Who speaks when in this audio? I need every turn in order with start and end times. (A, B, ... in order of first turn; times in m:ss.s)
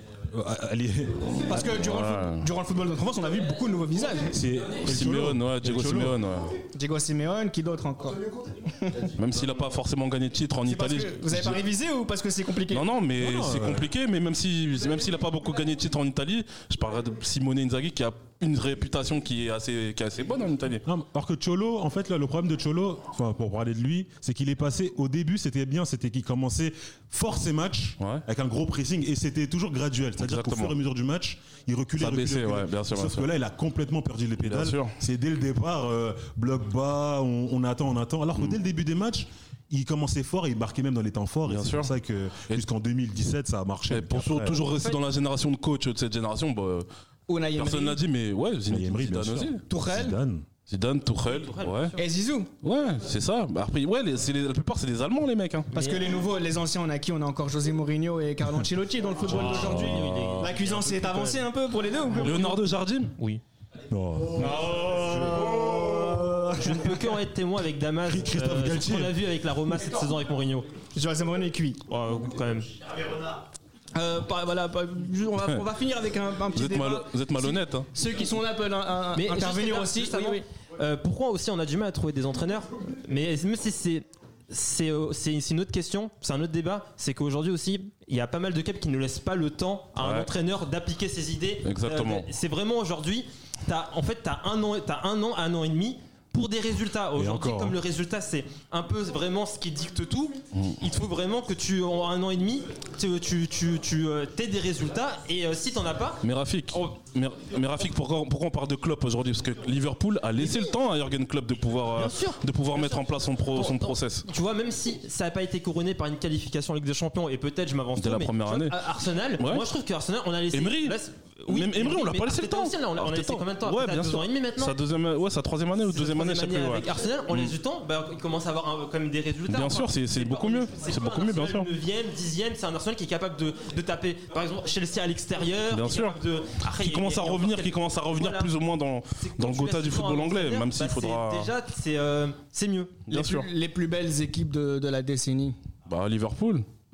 0:00.3-0:01.7 A
0:01.4-0:04.4 B
0:01.5-0:02.4 C
0:04.2-0:06.2 A
0:04.8-0:06.6 C
0:06.7-0:09.1 B
0:09.2-0:11.6 C
0:10.6-0:12.8 B
0:12.7-0:20.8 C
0:13.2-0:13.9 A
0:20.8-0:44.6 A
0:30.2-0:30.7 C
0:32.0-0:33.3 C
0:34.4-0:34.9 C
0:41.5-0:41.9 C
0:43.9-0:46.9 C
0:44.7-0:45.0 D
0:47.3-0:48.0 B
0:47.6-0:49.6 C
0:48.7-0:50.5 A
0:49.7-0:50.2 B
0:50.7-0:52.0 C
0:51.3-0:52.0 D
0:52.0-0:52.5 B
0:52.6-0:55.7 C
0:55.7-1:02.6 B
0:55.7-0:56.2 D
0:59.2-1:00.6 C
0:59.2-1:01.4 D
1:02.2-1:03.1 C
1:03.9-1:05.3 A
1:04.4-1:06.9 B
1:06.6-1:10.7 D
1:08.0-1:09.2 A
1:10.9-1:11.8 B
1:11.9-1:12.7 D
1:13.9-1:20.4 B
1:16.5-1:17.9 C
1:19.1-1:46.2 D
1:30.0-1:30.3 C
1:31.6-1:32.3 C
1:37.1-1:37.8 A
1:40.5-1:40.8 C
1:46.2-1:54.3 C
1:52.0-2:04.8 D
1:58.0-1:58.8 C
1:59.4-1:59.7 C
2:00.5-2:01.0 C
2:01.5-2:07.5 C
2:05.9-2:18.5 D
2:09.5-2:11.7 C
2:15.7-2:21.5 C
2:19.2-2:23.0 D
2:23.1-2:23.5 C
2:23.1-2:25.6 B
2:25.9-2:26.6 C